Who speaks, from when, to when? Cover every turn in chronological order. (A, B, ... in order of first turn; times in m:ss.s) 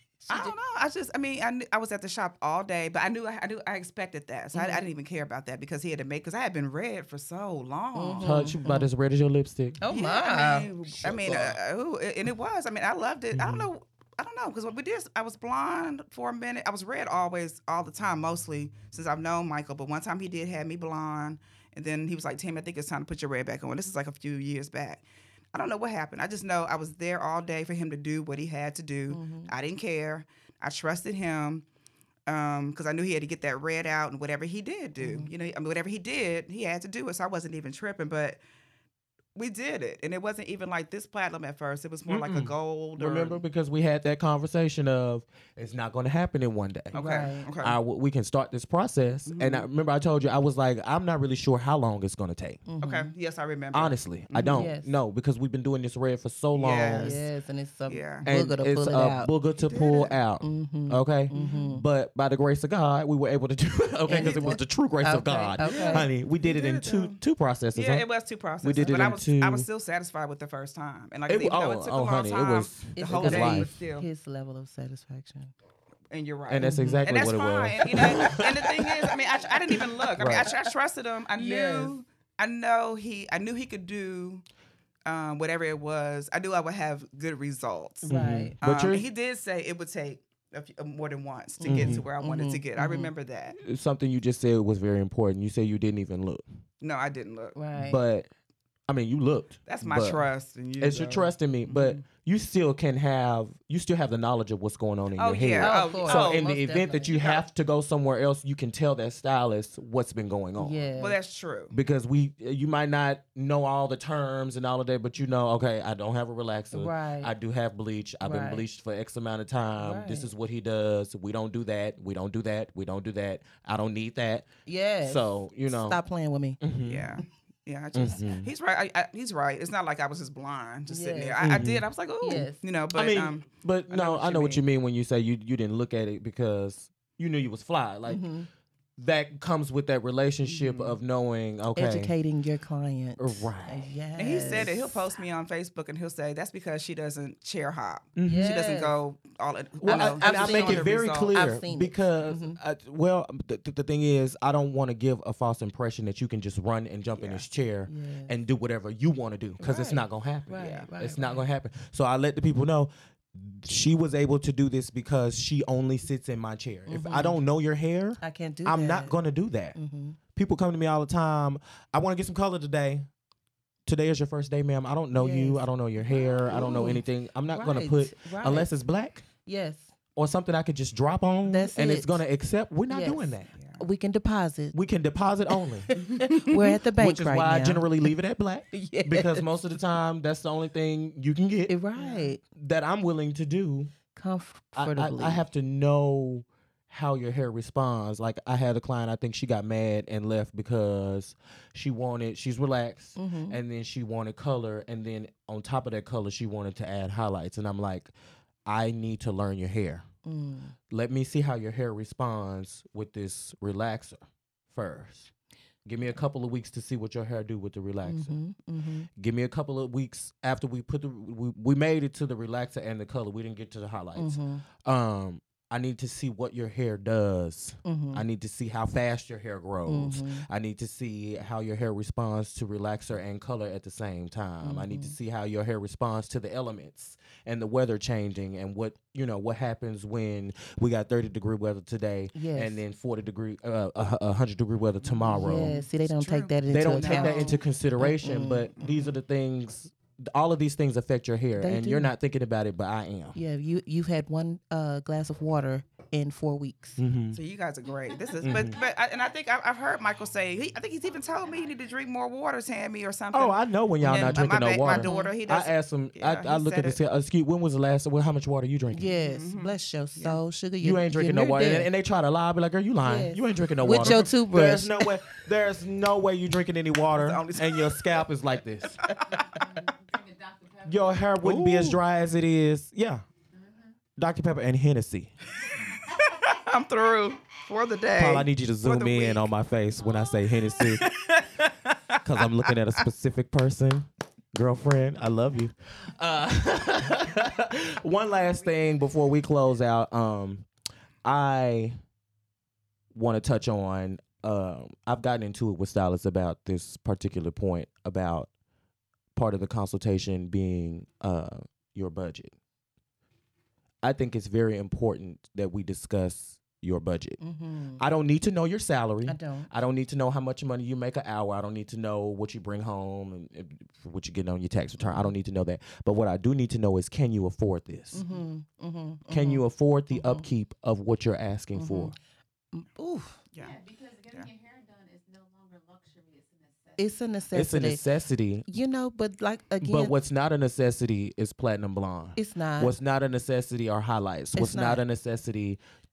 0:00.2-0:00.5 A
0:00.3-0:08.4 B
0:04.5-0:04.8 A
0:08.0-0:08.9 A
0:08.2-0:09.8 C
0:09.8-0:10.7 A
0:09.9-0:31.6 B
0:10.9-0:11.6 C
0:13.3-0:13.7 C
0:29.1-0:29.5 A
0:32.3-0:38.4 B
0:35.0-0:35.3 A
0:39.4-0:43.4 B
0:42.1-0:52.6 C
0:46.9-0:47.8 B
0:46.9-0:47.5 A
0:49.3-0:49.7 B
0:52.7-0:53.1 A
0:52.8-0:54.7 B
0:53.7-0:57.2 C
0:54.5-0:55.0 A
0:56.5-0:57.2 B
0:57.0-0:59.3 A
0:57.9-0:58.3 B
0:58.2-1:08.0 C
0:59.6-1:00.2 B
1:00.4-1:01.8 A
1:01.3-1:01.7 B
1:04.1-1:06.1 A
1:05.6-1:07.2 B
1:07.7-1:14.1 B
1:08.6-1:09.7 C
1:11.3-1:13.7 C
1:13.0-1:15.5 A
1:16.1-1:24.4 B
1:16.5-1:19.1 C
1:16.6-1:17.1 A
1:19.7-1:20.5 C
1:21.4-1:22.0 A
1:25.1-1:33.6 B
1:28.0-1:28.6 A
1:28.1-1:29.1 C
1:31.6-1:33.1 A
1:31.7-1:32.1 C
1:33.6-1:36.4 C
1:36.8-1:37.6 B
1:37.6-1:38.0 A
1:37.7-1:38.3 C
1:38.9-1:40.2 C
1:39.7-1:42.0 B
1:40.8-1:50.9 C
1:45.2-1:46.5 B
1:45.6-1:47.2 A
1:47.1-1:47.5 B
1:50.6-1:51.2 A
1:51.0-1:51.7 B
1:51.7-2:04.5 C
1:56.7-1:57.3 A
1:58.2-1:58.7 A
1:59.8-2:00.3 A
2:04.7-2:06.6 A
2:05.0-2:06.0 C
2:06.6-2:07.2 C
2:06.8-2:14.6 B
2:07.9-2:08.5 C
2:10.9-2:11.4 A
2:11.4-2:18.3 C
2:12.2-2:12.6 A
2:18.1-2:18.5 A
2:19.0-2:22.1 C
2:20.4-2:21.0 B
2:21.7-2:24.9 A
2:23.2-2:24.0 C
2:24.2-2:31.4 B
2:24.5-2:24.8 C
2:28.2-2:28.5 C
2:28.2-2:29.0 A
2:29.8-2:49.8 C
2:29.9-2:32.6 A
2:37.2-2:37.4 B
2:37.9-2:38.3 A
2:39.6-2:41.4 A
2:40.6-2:40.9 B
2:46.9-2:47.4 A
2:48.2-2:49.2 A
2:49.8-2:50.2 A
2:50.4-2:53.1 C
2:53.9-2:59.2 C
2:55.2-2:55.6 A
2:56.5-2:58.7 A
2:59.4-2:59.9 A
3:00.2-3:03.5 C
3:01.4-3:02.2 A
3:02.9-3:04.8 A
3:03.6-3:03.8 B
3:04.7-3:05.9 C
3:05.9-3:08.0 A
3:06.0-3:06.4 B
3:06.8-3:11.7 C
3:08.7-3:09.5 A
3:11.7-3:12.4 A
3:12.0-3:12.3 B
3:12.6-3:13.9 C
3:14.1-3:15.4 A
3:14.8-3:28.1 C
3:23.2-3:23.6 A
3:28.7-3:30.0 C
3:30.2-3:30.8 A
3:30.9-3:35.3 C
3:35.8-3:38.4 C
3:38.0-3:39.1 A
3:39.2-4:05.8 C
3:44.2-3:44.6 A
3:47.8-3:48.2 A
3:49.9-3:50.5 A
3:54.6-3:55.2 A
4:02.3-4:02.8 A
4:05.0-4:07.6 B
4:05.3-4:08.7 A
4:06.7-4:13.4 C
4:11.6-4:12.1 A
4:13.4-4:17.0 A
4:17.0-4:17.4 C
4:17.3-4:27.0 B
4:18.1-4:22.2 D
4:18.4-4:18.8 C
4:23.3-4:29.1 C
4:24.9-4:25.3 A
4:28.9-4:31.9 A
4:29.3-4:30.4 B
4:30.8-4:39.1 C
4:33.0-4:35.1 A
4:37.1-4:38.2 B
4:39.2-4:41.3 D
4:40.9-4:43.2 C
4:41.4-4:42.0 B
4:43.5-4:44.0 D
4:44.2-4:45.3 C
4:45.7-4:46.6 D
4:46.1-4:49.5 B
4:48.2-4:51.1 C
4:50.0-4:50.4 D
4:50.8-4:53.0 B
4:52.2-5:00.7 C
4:58.3-4:59.2 D
5:01.2-5:02.0 C
5:03.1-5:08.5 C
5:09.4-5:12.6 C
5:14.0-5:17.4 C
5:17.4-5:18.0 A
5:18.0-5:28.2 C
5:19.3-5:19.7 A
5:28.1-5:30.5 A
5:29.3-5:32.2 C
5:31.8-5:32.2 A
5:32.7-5:33.4 A
5:33.6-5:37.3 D
5:37.0-5:38.0 A
5:37.5-5:38.7 C
5:38.7-5:40.1 A
5:39.8-5:45.8 C
5:42.4-5:43.0 A
5:44.6-5:45.0 A